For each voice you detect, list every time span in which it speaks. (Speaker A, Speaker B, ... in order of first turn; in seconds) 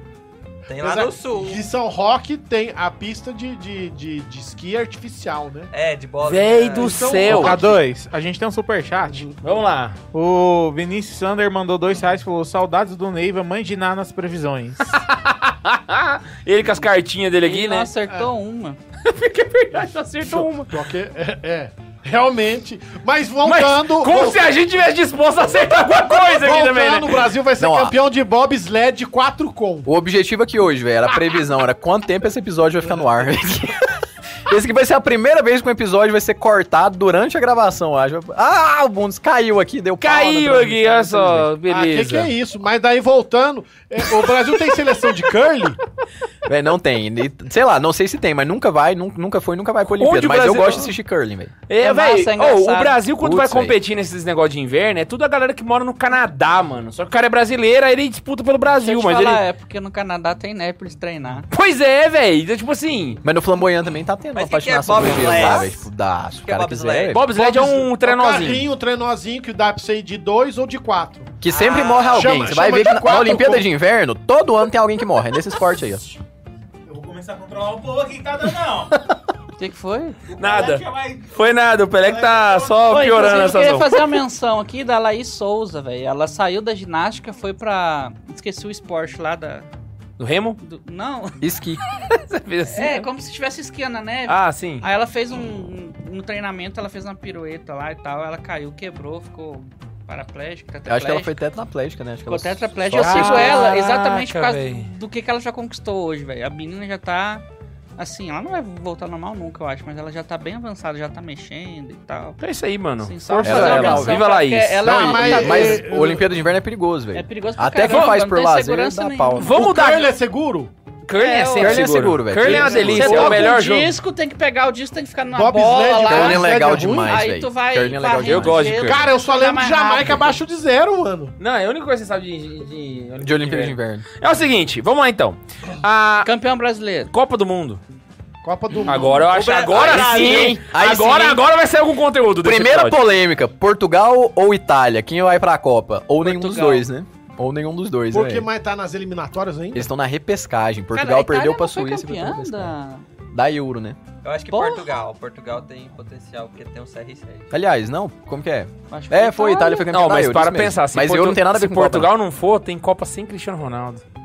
Speaker A: 0.7-1.7, 5.7-7.2, 64.3-65.8, 66.4-67.2, 71.5-72.2, 139.3-140.6, 154.2-157.5
Speaker B: 0.8-5.7, 6.8-7.8, 20.2-24.5, 26.1-29.9, 41.7-45.8, 67.3-71.4, 71.9-73.7, 114.8-116.3, 119.5-120.7, 122.5-123.2, 125.3-127.2, 128.9-131.3, 138.4-139.4, 148.1-149.9
Speaker C: 6.2-7.6, 9.4-10.0, 14.9-17.9, 19.0-20.7, 23.4-27.3, 40.0-42.3, 50.0-51.0, 51.7-59.4, 61.5-63.2, 67.1-68.7, 80.4-84.1, 90.2-90.6, 92.1-93.1, 94.3-94.8, 102.9-104.9, 112.4-115.0, 117.9-118.2, 119.4-120.1, 121.0-123.9, 128.2-129.1, 131.4-136.3, 137.1-137.8, 138.8-143.0, 159.9-164.0
Speaker D: 7.2-9.3, 10.1-14.9, 76.9-79.0, 80.3-81.4, 82.0-83.0
Speaker E: 17.4-18.8, 51.8-53.0, 58.8-61.5, 79.6-80.2, 82.9-89.7, 90.6-91.4, 92.7-101.4, 102.3-107.4, 108.0-112.4, 113.0-115.9, 117.1-119.5, 121.1-126.5, 127.0-130.4, 136.2-137.1, 146.2-146.9, 150.9-153.0, 154.5-154.8, 158.9-159.9
Speaker F: 27.6-27.9, 29.9-33.8, 34.5-41.5, 46.5-51.5, 53.2-53.8, 63.2-67.2, 71.4-76.0, 91.4-91.8, 100.9-103.6, 113.4-114.3, 114.8-119.6, 121.6-123.5, 126.1-128.9, 133.2-134.1, 139.7-141.4, 142.4-148.5, 149.7-152.8, 153.3-154.0, 157.5-162.1